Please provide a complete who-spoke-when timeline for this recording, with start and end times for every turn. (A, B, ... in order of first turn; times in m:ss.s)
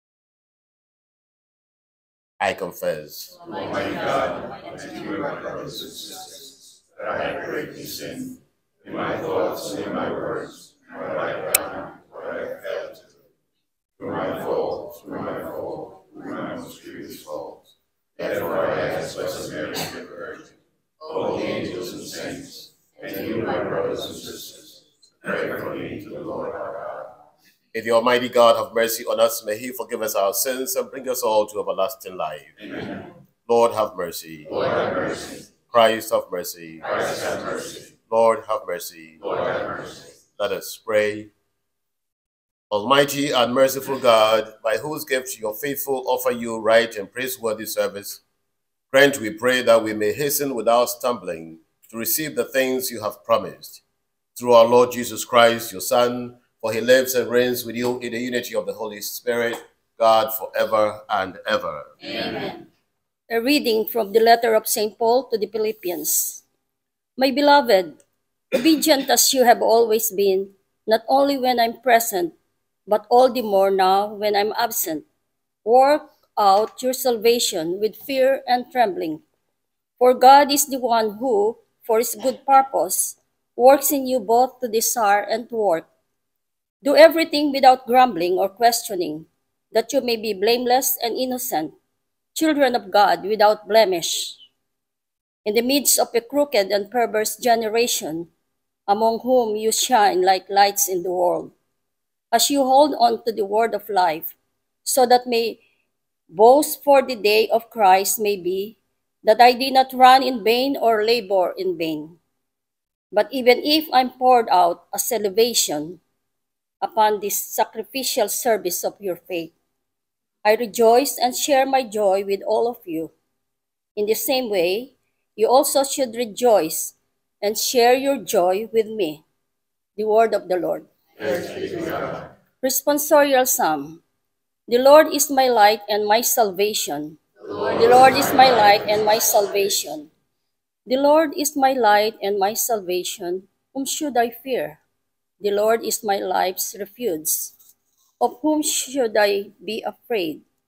0:02.4-0:03.4 A
0:03.4-0:06.2 B
0:07.0-0:13.0 B
0:14.0-0:17.3 B
0:18.2-0:20.4 B
0:21.0-0:24.7 B
0:25.2-0:27.0 B
0:27.7-0:32.5 A
0:33.4-0:34.6 A
0:34.5-0:35.4 B
0:35.7-0:37.0 A
0:36.9-0:37.8 B
0:38.1-0:39.2 A
0:39.2-0:40.0 B
0:40.4-0:41.3 A
0:42.7-0:48.2 A
0:48.9-0:53.8 A
0:54.4-1:01.9 A
1:02.0-1:02.6 B
1:03.3-1:06.4 C
1:07.2-1:08.0 C
1:08.5-1:12.3 C
1:12.8-1:15.0 C
1:15.6-1:19.2 C
1:20.0-1:25.9 C
1:26.8-1:31.7 C
1:32.3-1:34.4 C
1:35.4-1:38.3 C
1:38.9-1:41.5 C
1:42.3-1:45.6 C
1:46.3-1:52.2 C
1:53.1-1:56.0 C
1:56.8-1:59.5 C
2:00.4-2:03.1 C
2:04.0-2:09.2 C
2:10.0-2:10.8 C
2:11.2-2:12.1 B
2:12.6-2:14.0 C
2:14.7-2:20.1 C
2:20.8-2:24.8 C
2:25.4-2:27.5 C
2:28.2-2:30.4 C